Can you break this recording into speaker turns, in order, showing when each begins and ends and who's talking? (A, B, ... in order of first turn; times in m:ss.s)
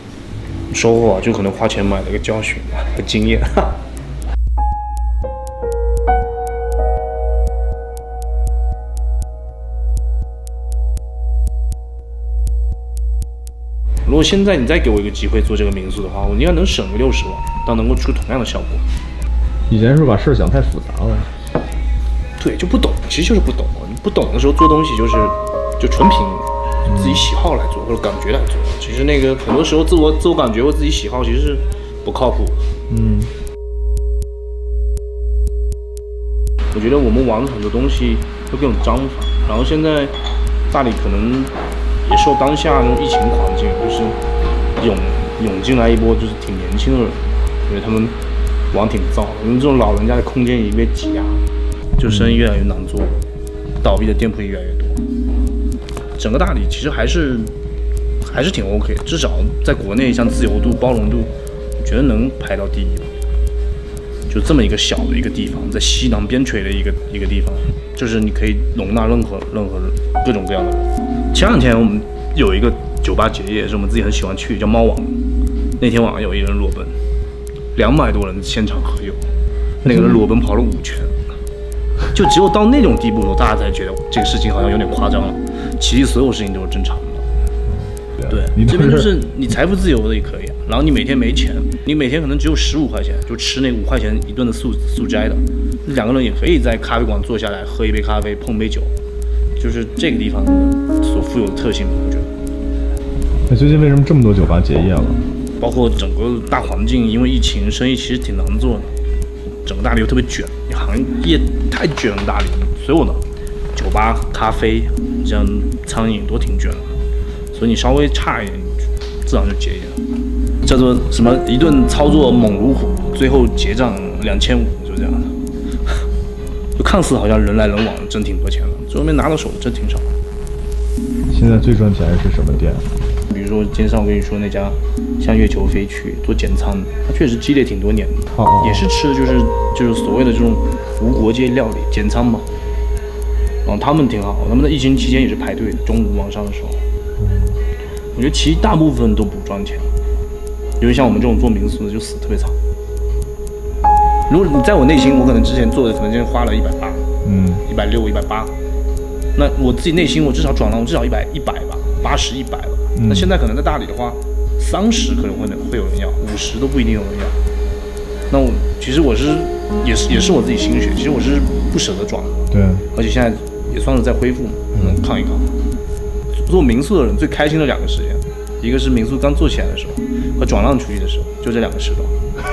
0:00.7-0:03.8 A
0:14.0-0:18.8 A
0:19.7-0:21.3 B
0:22.4-0:32.6 A
0:26.9-0:27.2 B
0:32.9-0:33.3 B
0:36.7-0:40.2 A
0:40.7-0:41.5 A
0:42.0-0:44.2 A
0:44.8-0:48.2 A
0:48.7-0:51.4 A
0:52.0-0:53.2 A
0:52.1-0:52.4 B
0:53.8-0:55.0 A
0:56.2-0:57.5 A
0:58.2-1:03.1 A
1:04.3-1:15.2 A
1:15.8-1:17.0 A
1:17.8-1:19.2 A
1:19.8-1:21.2 A
1:19.9-1:20.2 B
1:22.1-1:27.3 A
1:28.1-1:29.1 B
1:28.3-1:38.9 A
1:39.6-1:42.3 A
1:43.5-1:45.2 B
1:45.6-1:48.9 A
1:49.6-1:53.2 A
1:53.8-1:57.0 A
1:57.5-2:00.0 A
2:00.6-2:05.4 A
2:06.8-2:10.1 A
2:11.3-2:12.9 B
2:13.3-2:22.5 A
2:18.4-2:18.8 B
2:23.6-2:26.8 A
2:27.2-2:27.6 B
2:28.2-2:29.9 A
2:30.8-2:32.6 A
2:34.3-2:37.0 A
2:37.2-2:37.6 B
2:37.6-2:38.5 A
2:39.4-2:47.4 A
2:43.0-2:43.3 B
2:48.3-2:55.6 A
2:52.5-2:52.8 B
2:56.5-3:02.2 A